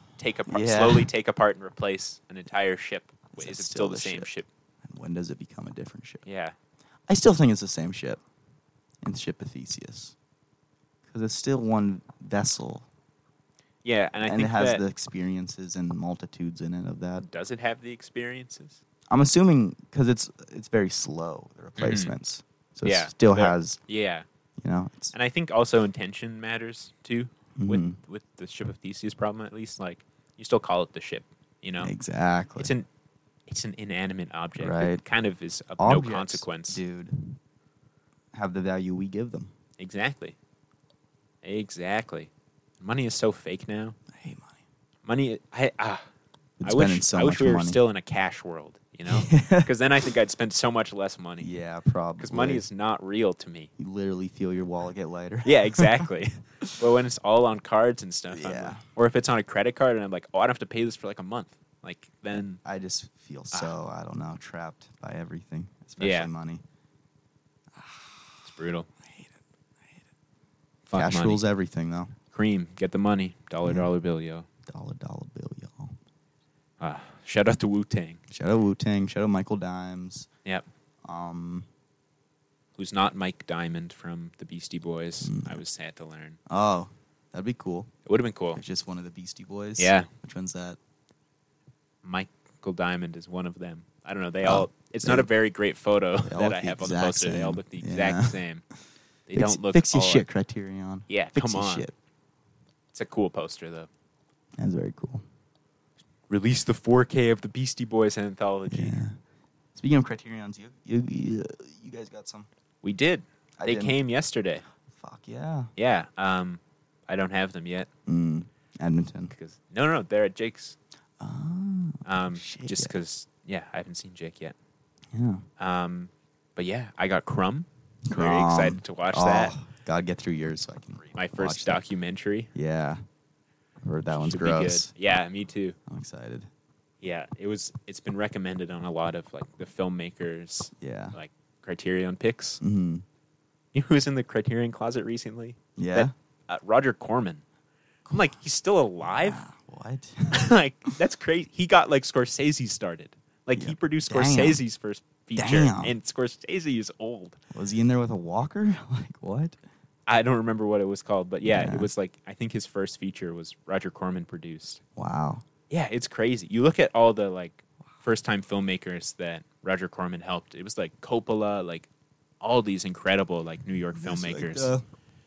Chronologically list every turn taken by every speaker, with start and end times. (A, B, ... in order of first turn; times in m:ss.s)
0:00.2-0:04.5 A
0:00.5-0:01.1 B
0:03.3-0:04.3 B
0:04.8-0:06.2 B
0:06.2-0:06.6 A
0:07.1-0:08.2 B
0:09.0-0:10.2 B
0:11.1-0:12.9 B
0:13.8-0:14.8 A
0:14.2-0:17.3 B
0:17.2-0:18.8 A
0:19.1-0:23.8 B
0:21.8-0:22.1 A
0:22.8-0:24.2 A
0:24.6-0:25.1 B
0:25.1-0:31.9 A
0:27.6-0:28.0 B
0:31.8-0:32.7 B
0:32.6-0:32.9 A
0:33.5-0:36.8 A
0:34.6-0:35.0 B
0:35.8-0:37.4 B
0:38.3-0:39.5 B
0:39.8-0:40.4 A
0:41.4-0:42.3 A
0:42.8-0:44.0 A
0:44.1-0:44.6 B
0:45.0-0:46.1 A
0:46.6-0:47.8 B
0:46.6-0:51.5 A
0:49.1-0:49.7 B
0:51.4-0:52.6 B
0:52.2-0:53.7 A
0:53.8-0:56.1 B
0:55.4-1:02.6 A
0:58.3-0:58.8 B
1:02.3-1:06.6 B
1:06.0-1:06.3 A
1:07.7-1:08.5 B
1:08.4-1:08.9 A
1:09.0-1:09.3 B
1:10.9-1:11.4 A
1:10.9-1:12.1 B
1:12.3-1:14.5 A
1:13.6-1:13.9 B
1:14.7-1:16.0 B
1:16.8-1:18.2 A
1:18.3-1:20.3 B
1:21.0-1:21.7 B
1:22.8-1:26.4 A
1:25.2-1:25.6 B
1:26.5-1:27.9 B
1:28.1-1:28.6 A
1:28.6-1:30.8 B
1:29.8-1:30.1 A
1:32.0-1:38.6 A
1:34.4-1:35.3 B
1:36.2-1:38.4 B
1:39.3-1:40.3 A
1:39.3-1:41.9 B
1:41.1-1:41.9 A
1:42.9-1:43.9 A
1:44.6-1:45.2 B
1:46.3-1:49.0 A
1:48.7-1:49.2 B
1:49.8-1:52.5 B
1:52.8-1:54.6 A
1:53.6-1:54.0 B
1:54.9-1:55.7 B
1:55.8-1:57.9 A
1:58.1-1:59.3 B
1:59.3-2:00.8 A
2:01.2-2:03.0 B
2:02.0-2:04.6 A
2:05.1-2:05.4 B
2:05.6-2:09.6 A
2:08.1-2:11.8 B
2:11.2-2:12.5 A
2:12.5-2:13.0 B
2:13.8-2:14.9 B
2:14.1-2:15.8 A
2:15.9-2:16.5 B
2:17.0-2:22.6 A
2:20.8-2:21.2 B
2:22.6-2:23.0 B
2:23.7-2:27.4 A
2:25.8-2:26.1 B
2:28.1-2:28.4 B
2:28.1-2:29.4 A
2:29.0-2:30.4 B
2:30.3-2:37.4 A
2:33.5-2:34.6 B
2:35.4-2:35.9 B
2:37.5-2:39.6 B
2:40.1-2:44.8 A
2:41.4-2:41.9 B
2:45.0-2:45.4 B
2:45.7-2:51.9 A
2:52.4-2:54.7 A
2:54.0-2:54.8 B